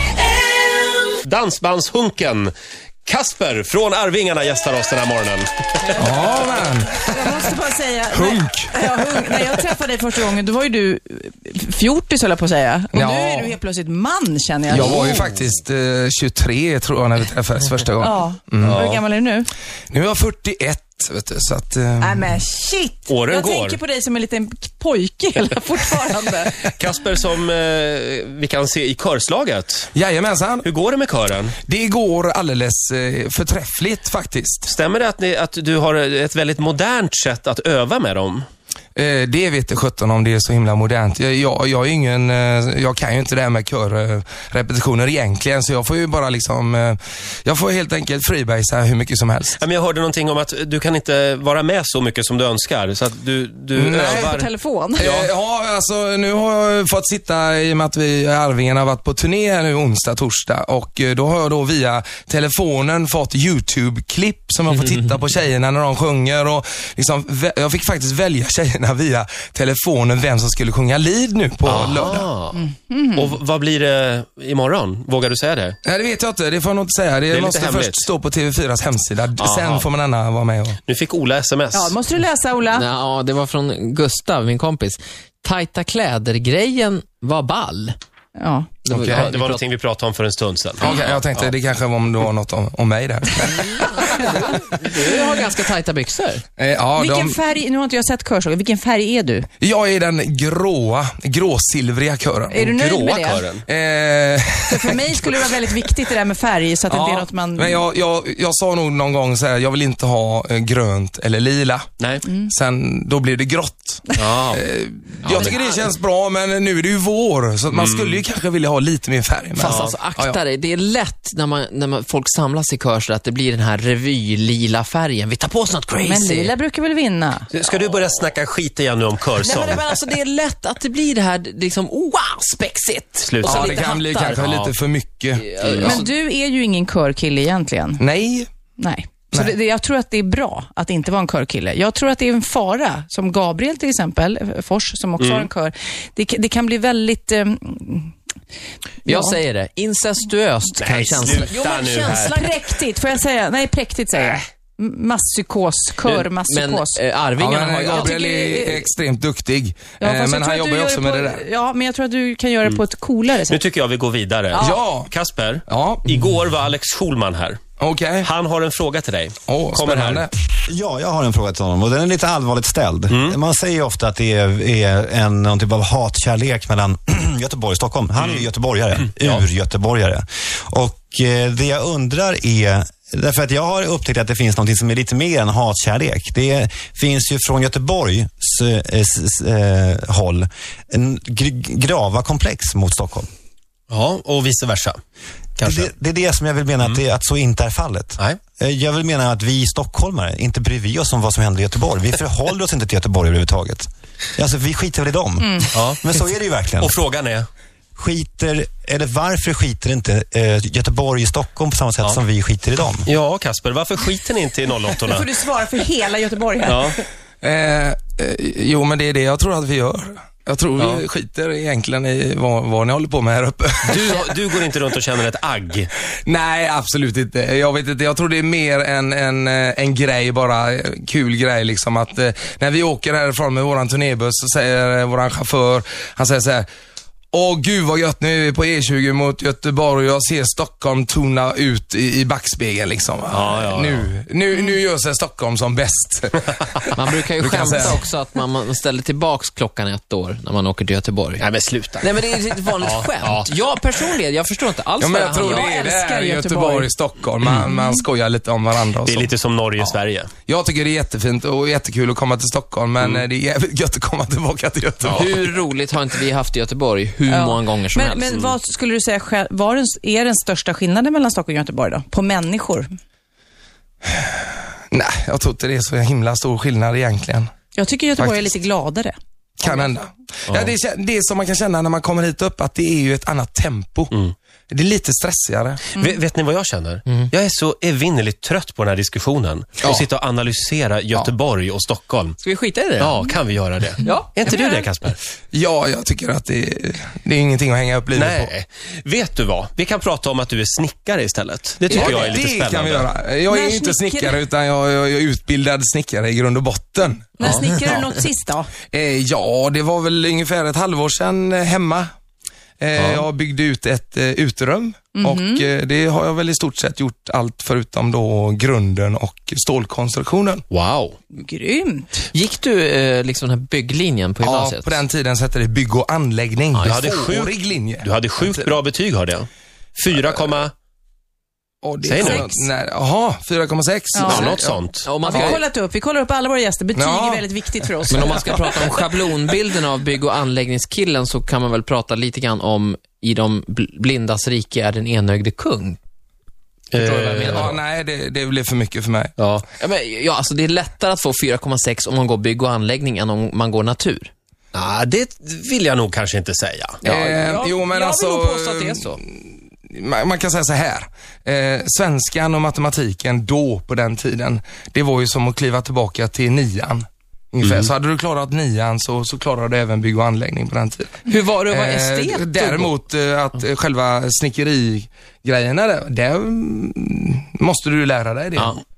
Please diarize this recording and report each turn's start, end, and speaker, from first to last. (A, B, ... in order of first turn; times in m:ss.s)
0:01.2-0:02.5 A
0:03.0-0:05.8 A
0:06.0-0:09.6 B
0:07.0-0:15.0 C
0:12.9-0:13.6 B
0:14.7-0:18.8 B
0:14.7-0:15.5 A
0:18.0-0:19.5 C
0:18.6-0:19.0 A
0:19.9-0:22.4 B
0:22.0-0:26.6 C
0:23.1-0:23.8 A
0:26.6-0:29.9 A
0:29.9-0:30.7 B
0:30.6-0:31.5 A
0:31.6-0:34.7 B
0:34.6-0:38.4 A
0:39.0-0:49.6 B
0:49.6-0:54.5 A
0:53.7-0:54.3 B
0:54.0-0:55.2 C
0:55.0-0:55.3 A
0:55.0-1:12.3 B
1:11.6-1:12.6 A
1:12.5-1:13.4 C
1:13.1-1:15.8 A
1:15.8-1:20.8 B
1:17.3-1:18.0 A
1:19.4-1:19.9 A
1:20.9-1:21.9 A
1:21.7-1:22.8 C
1:22.7-1:27.9 D
1:28.4-1:28.9 C
1:28.8-1:29.6 D
1:28.9-1:29.3 B
1:29.1-1:31.5 A
1:30.8-1:34.2 B
1:33.4-1:36.4 D
1:36.6-1:37.4 B
1:36.9-1:39.5 C
1:39.6-1:42.7 B
1:42.5-1:43.5 C
1:42.7-1:43.6 A
1:43.6-1:46.0 B
1:44.7-1:47.8 C
1:46.9-1:51.9 B
1:52.0-1:52.3 A
1:52.2-1:52.5 C
1:52.4-2:00.4 B
1:54.2-1:54.6 A
1:55.2-1:55.6 A
1:55.2-1:55.7 D
1:57.7-1:58.2 A
1:59.5-2:06.5 D
1:59.6-2:00.0 A
2:06.0-2:07.5 C
2:07.5-2:09.8 A
2:09.4-2:14.3 D
2:13.3-2:14.7 A
2:13.4-2:15.9 B
2:15.4-2:16.1 D
2:15.6-2:16.0 A
2:15.8-2:18.0 C
2:18.0-2:18.5 B
2:18.8-2:28.1 C
2:25.2-2:25.5 A
2:29.0-2:29.4 C
2:29.0-2:32.5 D
2:30.8-2:32.5 A
2:31.6-2:37.0 C
2:36.1-2:38.2 D
2:37.4-2:41.4 B
2:37.9-2:38.9 C
2:39.9-2:43.6 C
2:43.5-2:47.6 A
2:44.5-2:44.8 C
2:44.6-2:45.1 B
2:45.6-2:46.1 B
2:47.8-2:48.3 B
2:48.2-2:50.3 A
2:49.5-2:50.3 B
2:50.7-3:13.3 E
2:53.1-2:53.4 A
2:58.2-2:58.4 A
2:59.0-2:59.4 A
3:13.9-3:15.0 A
3:15.6-3:15.9 A
3:15.6-3:27.0 E
3:25.4-3:25.7 C
3:25.7-3:26.1 A
3:26.8-3:27.5 A
3:28.0-3:33.1 E
3:33.0-3:35.3 A
3:35.0-3:37.0 C
3:36.6-3:37.0 A
3:37.4-3:44.3 B
3:40.8-3:41.0 A
3:43.8-3:45.9 A
3:46.2-3:56.7 B
3:57.3-4:08.0 B
4:03.3-4:04.1 A
4:07.0-4:11.4 D
4:11.4-4:12.2 A
4:12.0-4:15.8 D
4:12.8-4:13.5 A
4:15.0-4:19.9 B
4:15.4-4:16.9 C
4:17.6-4:18.0 C
4:19.0-4:20.3 A
4:20.4-4:25.5 B
4:23.0-4:23.2 A
4:25.0-4:28.4 D
4:27.2-4:32.9 C
4:34.9-4:37.5 B
4:37.7-4:39.9 C
4:38.2-4:38.6 B
4:39.6-4:44.1 B
4:40.5-4:40.7 A
4:44.7-4:45.9 B
4:45.9-4:46.2 C
4:46.0-4:52.4 A
4:52.4-4:53.2 D
4:53.0-4:55.2 A
4:54.0-4:54.3 D
4:54.0-4:54.9 C
4:55.5-4:58.5 B
4:58.1-5:03.1 A
5:01.9-5:07.4 B
5:01.9-5:02.3 D
5:03.4-5:04.4 C
5:07.4-5:08.7 C
5:07.4-5:08.0 D
5:08.8-5:12.1 B
5:12.8-5:20.6 B
5:15.1-5:15.7 C
5:20.7-5:21.2 A
5:21.3-5:22.3 C
5:22.3-5:25.0 D
5:24.4-5:28.8 B
5:26.7-5:27.2 D
5:26.8-5:30.7 A
5:31.8-5:35.5 B
5:32.0-5:32.6 A
5:32.2-5:32.5 C
5:34.1-5:34.6 C
5:34.2-5:35.1 A
5:35.0-5:35.6 D
5:35.2-5:38.9 C
5:36.9-5:37.9 B
5:38.1-5:46.0 D
5:46.9-5:47.8 A
5:46.9-5:47.8 D
5:47.4-5:49.4 B
5:49.4-5:49.6 A
5:49.8-5:54.3 D
5:54.7-5:57.0 A
5:57.0-5:59.2 D
5:57.0-6:18.8 B
6:07.6-6:07.9 A
6:11.3-6:13.0 D